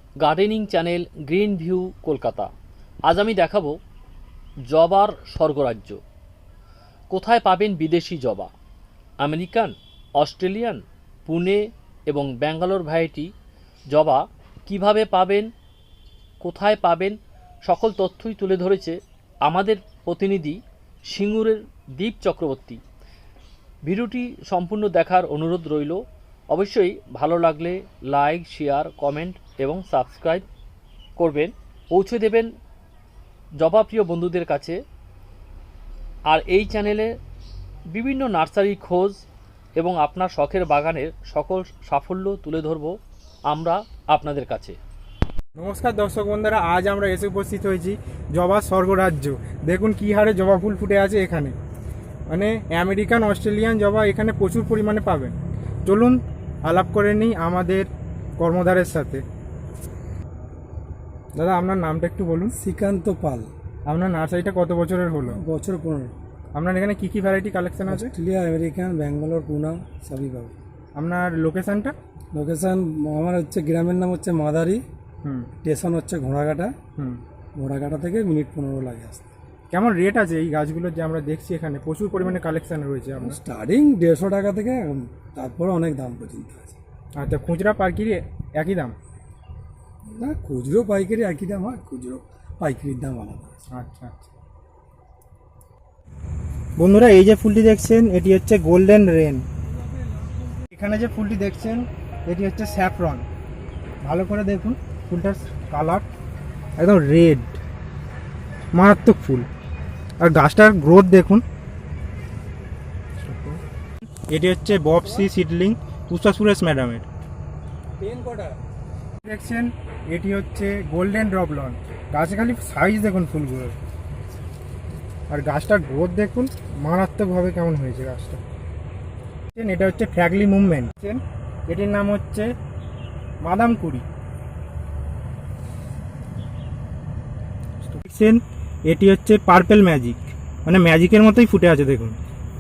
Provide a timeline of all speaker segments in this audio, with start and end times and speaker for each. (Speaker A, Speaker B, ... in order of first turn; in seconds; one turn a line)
Speaker A: 0.2-2.5
Speaker A: 3.1-3.8
Speaker A: 4.7-6.0
Speaker A: 7.1-8.5
Speaker A: 9.2-13.3
Speaker A: 13.9-15.5
Speaker A: 16.4-22.8
Speaker A: 23.9-30.5
Speaker A: 31.2-32.5
Speaker A: 33.6-34.8
Speaker A: 36.3-37.1
Speaker A: 37.9-39.2
Speaker A: 39.8-43.0
Speaker A: 43.5-44.8
Speaker B: 45.6-51.5
Speaker B: 52.3-57.9
Speaker B: 58.4-59.2
Speaker B: 61.4-62.5
Speaker C: 62.6-63.5
Speaker B: 63.9-65.4
Speaker C: 65.3-66.1
Speaker B: 66.6-68.2
Speaker C: 67.9-70.6
Speaker B: 71.0-71.9
Speaker C: 72.3-74.8
Speaker B: 75.2-75.5
Speaker C: 75.6-76.8
Speaker C: 77.6-79.3
Speaker B: 79.7-83.4
Speaker C: 83.2-86.8
Speaker B: 87.2-88.9
Speaker C: 90.1-93.6
Speaker B: 93.7-94.3
Speaker B: 96.8-99.5
Speaker B: 100.7-103.2
Speaker B: 104.0-106.1
Speaker B: 106.8-107.6
Speaker B: 108.8-109.5
Speaker B: 110.2-111.4
Speaker B: 113.2-113.6
Speaker B: 114.3-117.1
Speaker C: 118.0-118.6
Speaker B: 119.2-123.8
Speaker B: 125.3-128.4
Speaker B: 129.6-132.5
Speaker B: 133.4-134.1
Speaker B: 137.8-142.2